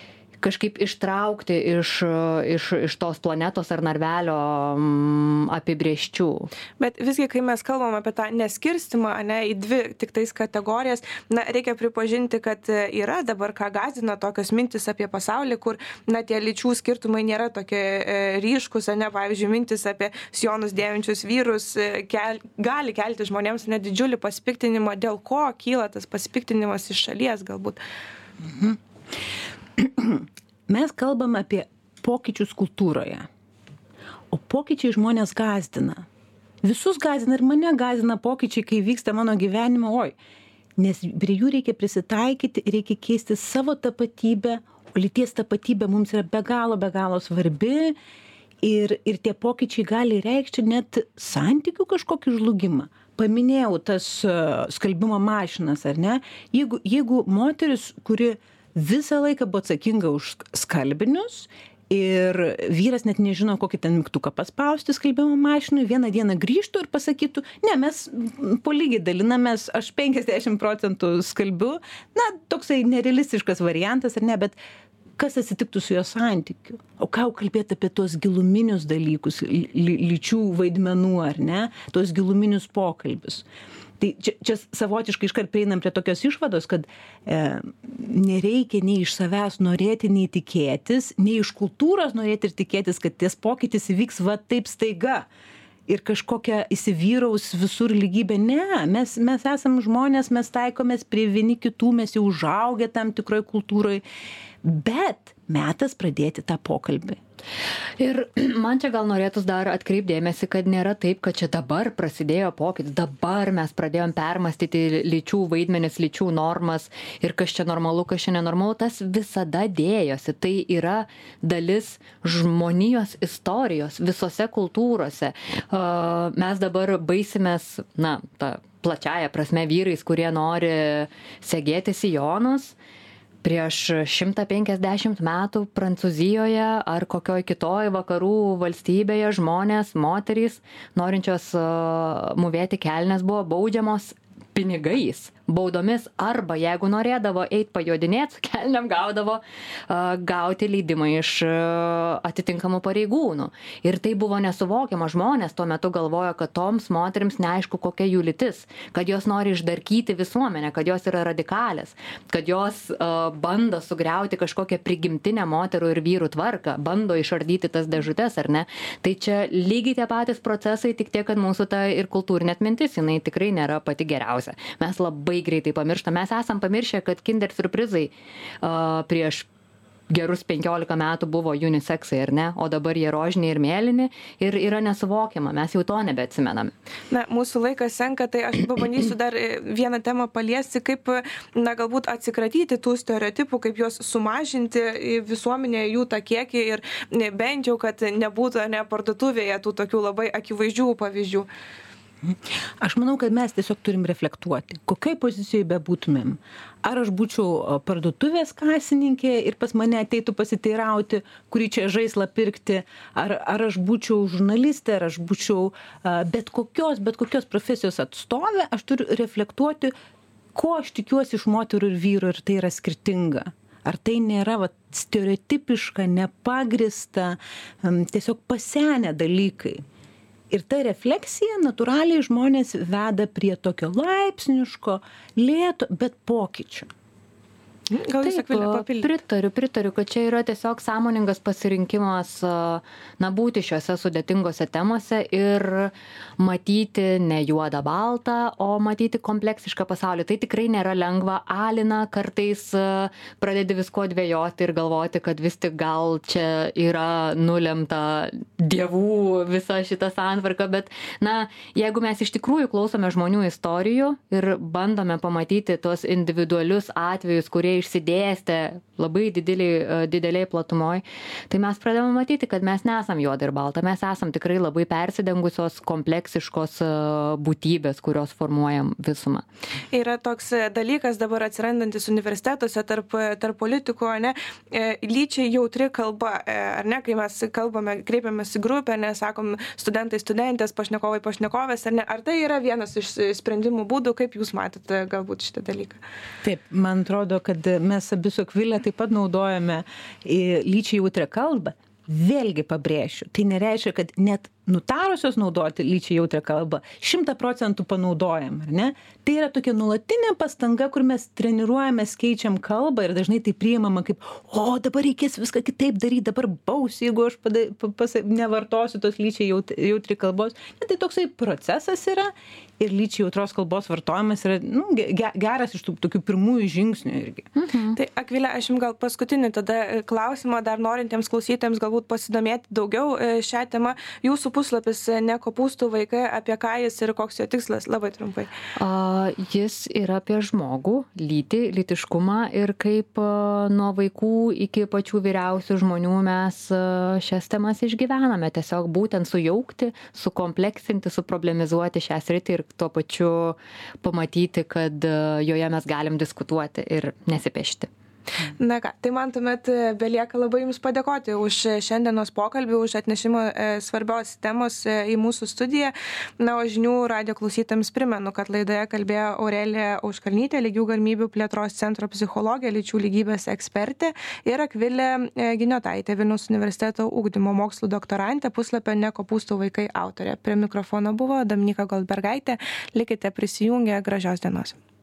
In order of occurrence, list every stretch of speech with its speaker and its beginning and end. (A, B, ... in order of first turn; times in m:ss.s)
0:00.4-0:06.5 A
0:06.8-0:27.8 B
0:28.5-0:28.8 C
0:29.8-0:33.3 C
0:34.3-0:36.0 C
0:36.6-0:40.2 C
0:40.8-0:48.0 C
0:48.6-1:14.6 C
1:15.2-1:23.5 C
1:24.0-1:35.3 C
1:35.9-1:44.0 C
1:44.6-1:47.2 C
1:48.0-2:12.8 A
2:13.4-2:59.5 A
3:00.1-3:06.7 A
3:07.1-3:21.5 B
3:22.3-3:39.9 C
3:40.6-3:49.8 C
3:50.5-3:56.9 C
3:57.9-3:59.1 B
3:58.2-4:39.4 A
4:39.9-4:56.0 B
4:56.4-5:27.5 C
5:27.6-5:28.0 A
5:28.0-5:38.5 B
5:38.8-5:57.9 A
5:58.6-6:24.8 B